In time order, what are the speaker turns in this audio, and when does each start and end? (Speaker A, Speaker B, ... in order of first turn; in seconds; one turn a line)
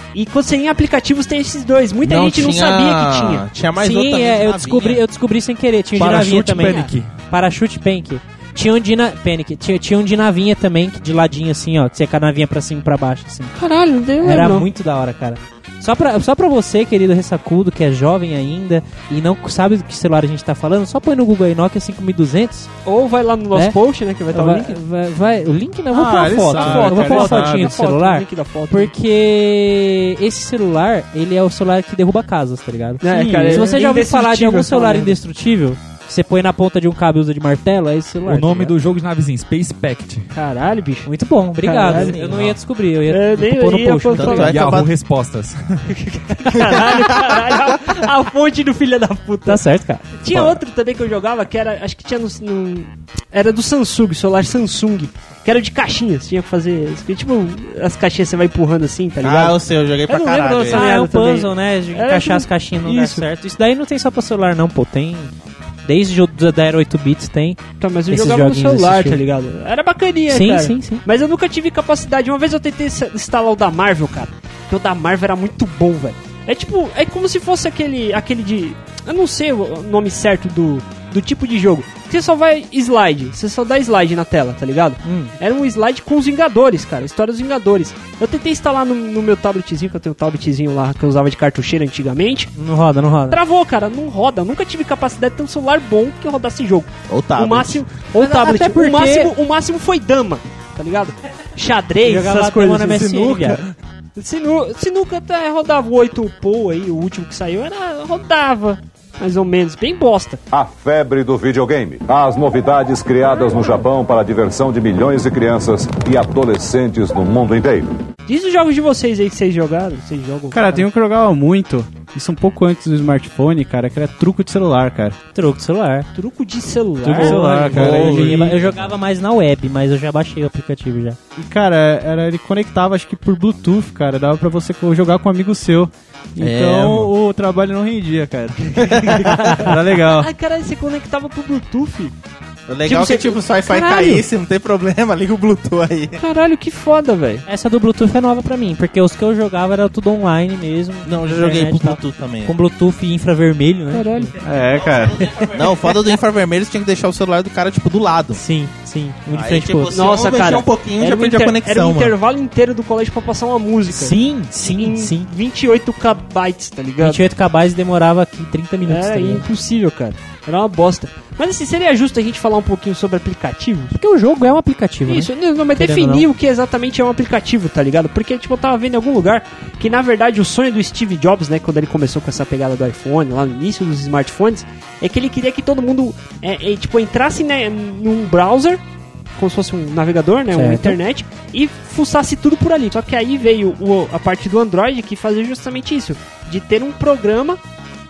Speaker A: 0.1-3.5
Speaker B: 2.0-5.0
Speaker C: 3.8-13.5
Speaker D: 6.0-7.0
Speaker E: 6.0-6.9
Speaker A: 6.5-6.9
Speaker A: 13.6-14.7
Speaker C: 14.2-22.7
Speaker A: 22.9-24.8
Speaker C: 24.3-38.8
Speaker D: 25.9-27.8
Speaker A: 26.5-28.9
Speaker A: 33.0-35.2
Speaker D: 33.1-33.9
Speaker E: 38.2-40.3
Speaker A: 40.3-41.1
Speaker C: 41.0-44.6
Speaker A: 41.6-42.5
Speaker B: 41.9-42.6
Speaker A: 43.1-44.5
Speaker B: 44.1-44.9
Speaker E: 44.4-45.9
Speaker A: 45.9-49.6
Speaker B: 46.5-47.4
Speaker C: 49.5-50.5
Speaker A: 50.1-63.2
Speaker B: 59.2-60.9
Speaker C: 60.5-65.3
Speaker C: 65.8-69.2
Speaker A: 67.8-92.5
Speaker C: 70.3-71.0
Speaker C: 85.0-85.3
Speaker C: 92.6-93.4
Speaker A: 93.3-103.3
Speaker B: 97.1-97.8
Speaker C: 98.1-99.3
Speaker C: 102.0-103.6
Speaker B: 103.0-103.7
Speaker A: 104.2-110.4
Speaker F: 110.5-117.9
Speaker A: 118.3-120.9
Speaker D: 120.5-125.2
Speaker C: 125.3-126.1
Speaker A: 126.2-128.4
Speaker D: 127.0-128.7
Speaker C: 127.1-131.2
Speaker D: 131.4-140.3
Speaker B: 136.4-137.1
Speaker A: 138.7-142.1
Speaker B: 142.7-146.2
Speaker A: 142.8-144.2
Speaker A: 146.2-147.5
Speaker C: 147.5-154.3
Speaker B: 151.1-152.6
Speaker A: 153.9-154.3
Speaker D: 154.4-155.6
Speaker B: 155.4-158.4
Speaker C: 158.3-160.1
Speaker B: 159.3-162.2
Speaker A: 159.9-167.2
Speaker C: 163.9-165.3
Speaker C: 167.0-169.5
Speaker A: 168.8-174.0
Speaker C: 173.9-176.3
Speaker A: 175.1-188.8
Speaker A: 189.4-197.6
Speaker C: 190.5-191.0